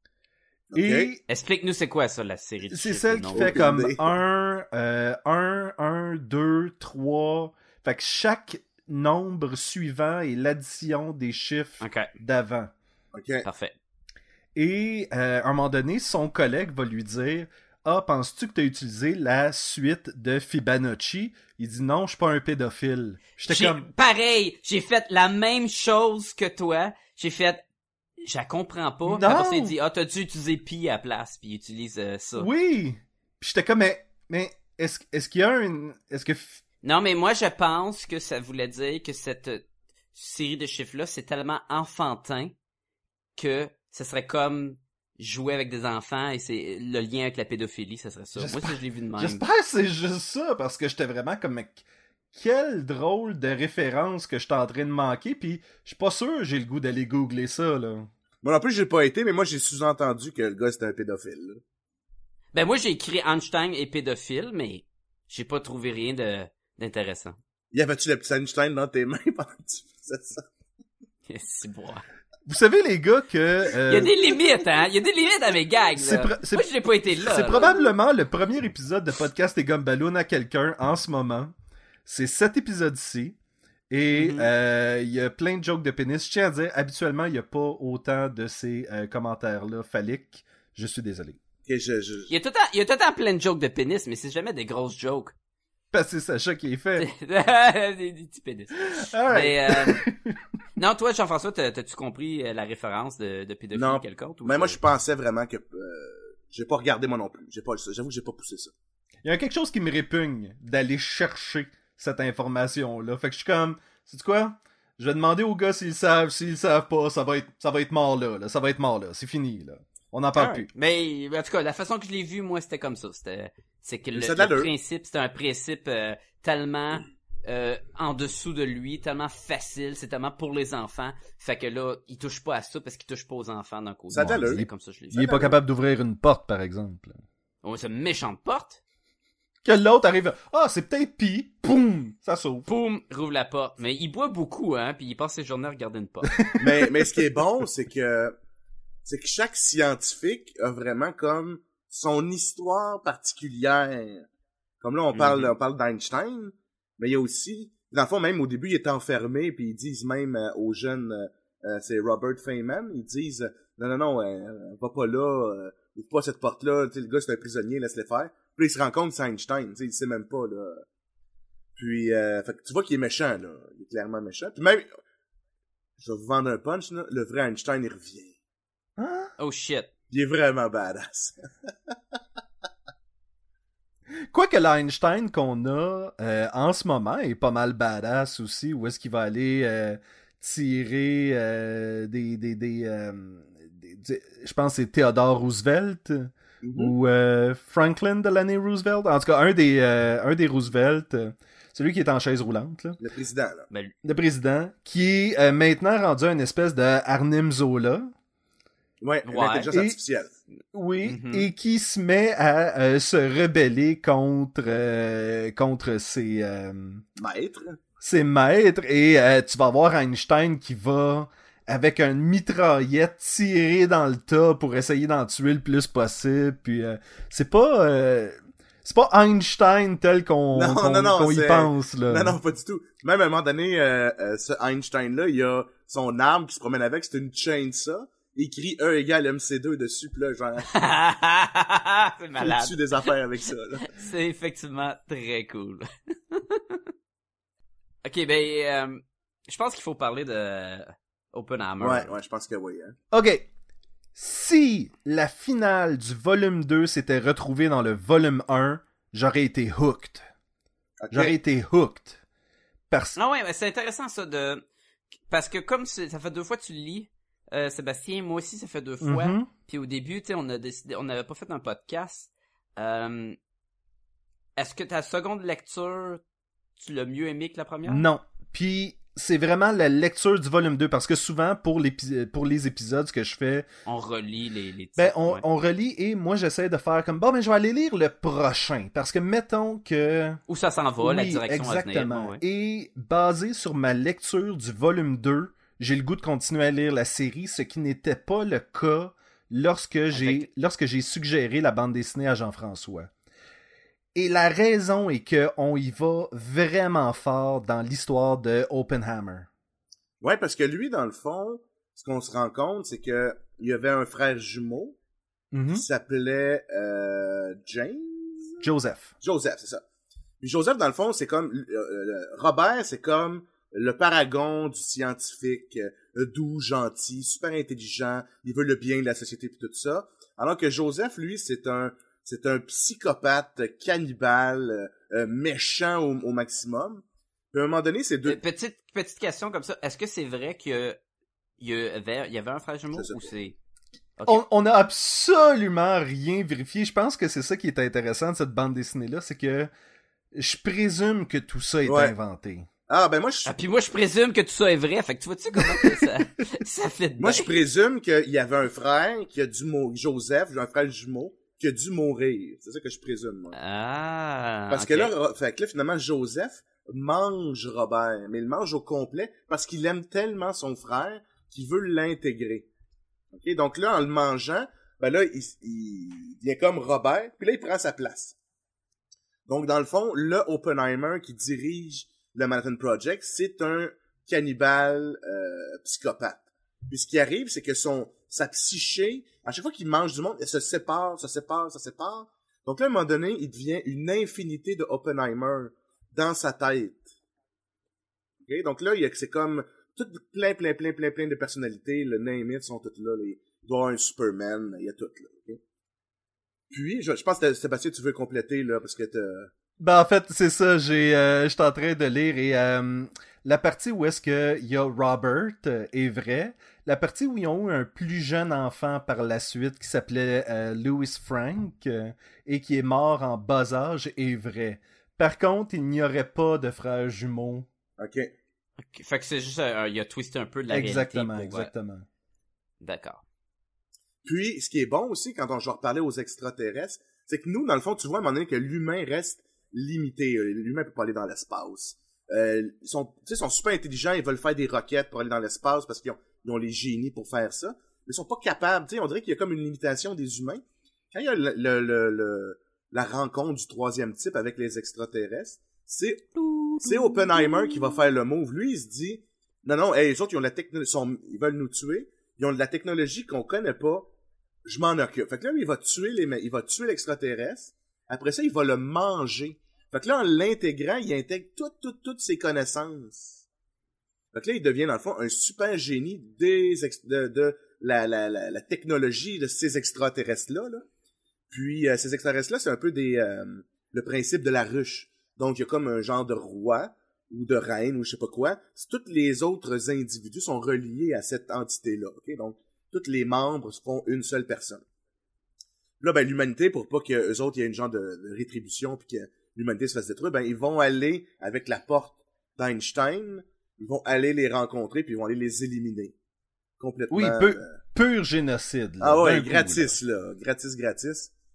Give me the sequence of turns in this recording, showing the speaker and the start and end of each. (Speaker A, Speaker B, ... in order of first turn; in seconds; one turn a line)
Speaker A: 0.7-1.1
Speaker B: 0.7-1.2
Speaker C: 1.3-3.7
Speaker B: 2.7-12.7
Speaker A: 3.3-4.2
Speaker C: 11.8-12.1
Speaker A: 13.1-13.5
Speaker C: 13.4-13.8
Speaker B: 14.6-23.9
Speaker C: 23.5-27.6
Speaker C: 28.2-32.5
Speaker B: 29.1-29.8
Speaker B: 32.4-36.6
Speaker C: 36.8-42.5
Speaker C: 43.4-49.4
Speaker B: 48.4-58.1
Speaker A: 58.4-61.6
Speaker C: 62.5-67.4
Speaker A: 67.7-70.4
Speaker C: 71.3-72.0
Speaker B: 72.5-74.1
Speaker C: 73.9-77.9
Speaker B: 76.0-81.5
Speaker B: 82.1-83.4
Speaker B: 83.9-91.4
Speaker C: 84.1-84.5
Speaker A: 91.7-92.3
Speaker C: 92.3-95.3
Speaker B: 95.9-97.1
Speaker C: 97.0-100.0
Speaker B: 98.9-100.4
Speaker C: 100.8-104.8
Speaker A: 103.7-108.7
Speaker B: 109.2-120.7
Speaker C: 120.4-135.4
Speaker A: 124.1-124.7
Speaker A: 134.1-134.7
Speaker B: 134.2-137.2
Speaker A: 135.2-135.5
Speaker C: 137.6-138.8
Speaker B: 139.6-142.7
Speaker C: 142.7-146.5
Speaker B: 146.2-146.8
Speaker A: 146.6-148.3
Speaker A: 149.1-154.3
Speaker A: 154.8-170.8
Speaker C: 155.1-155.5
Speaker A: 171.8-174.9
Speaker A: 176.0-178.4
Speaker B: 179.0-179.3
Speaker C: 179.4-179.9
Speaker A: 180.1-181.3
Speaker B: 184.3-203.0
Speaker A: 196.6-196.9
Speaker A: 203.0-203.7
Speaker B: 204.0-208.1
Speaker A: 209.0-210.3
Speaker C: 209.3-209.7
Speaker B: 210.7-217.1
Speaker C: 211.0-211.5
Speaker A: 217.2-217.8
Speaker B: 218.0-232.4
Speaker A: 230.5-240.7
Speaker C: 240.7-243.1
Speaker A: 242.4-243.9
Speaker C: 243.8-246.8
Speaker C: 248.0-252.1
Speaker A: 251.8-253.0
Speaker B: 253.1-253.5
Speaker B: 254.2-260.2
Speaker A: 261.0-261.4
Speaker B: 261.1-262.2
Speaker B: 262.9-263.2
Speaker C: 263.1-264.6
Speaker C: 265.3-273.4
Speaker B: 269.0-269.5
Speaker C: 274.6-276.2
Speaker C: 276.8-278.1
Speaker B: 277.9-283.7
Speaker C: 283.9-285.4
Speaker B: 285.0-290.4
Speaker C: 290.5-292.4
Speaker B: 291.0-303.1
Speaker C: 300.1-300.5
Speaker B: 304.1-309.5
Speaker A: 310.2-315.0
Speaker B: 315.5-315.9
Speaker A: 315.7-318.6
Speaker B: 318.6-319.1
Speaker A: 319.2-319.8
Speaker A: 320.4-338.4
Speaker C: 338.2-341.0
Speaker C: 341.6-343.6
Speaker A: 342.9-343.2
Speaker B: 344.3-349.7
Speaker B: 350.3-352.7
Speaker A: 351.9-352.1
Speaker A: 352.9-353.5
Speaker C: 353.5-357.6
Speaker B: 355.6-356.1
Speaker A: 357.2-363.6
Speaker C: 363.5-365.1
Speaker A: 364.7-372.7
Speaker A: 373.3-378.4
Speaker A: 379.5-397.1
Speaker A: 398.5-405.6
Speaker A: 406.7-409.5
Speaker B: 409.8-427.7
Speaker A: 428.0-428.3
Speaker C: 428.8-431.7
Speaker B: 430.7-432.1
Speaker C: 432.8-433.2
Speaker A: 434.2-456.3
Speaker C: 456.4-458.0
Speaker A: 456.8-464.1
Speaker A: 464.6-473.4
Speaker A: 474.3-480.8
Speaker A: 481.5-494.8
Speaker A: 496.0-506.1
Speaker A: 506.8-507.8
Speaker B: 507.1-510.0
Speaker A: 509.0-511.3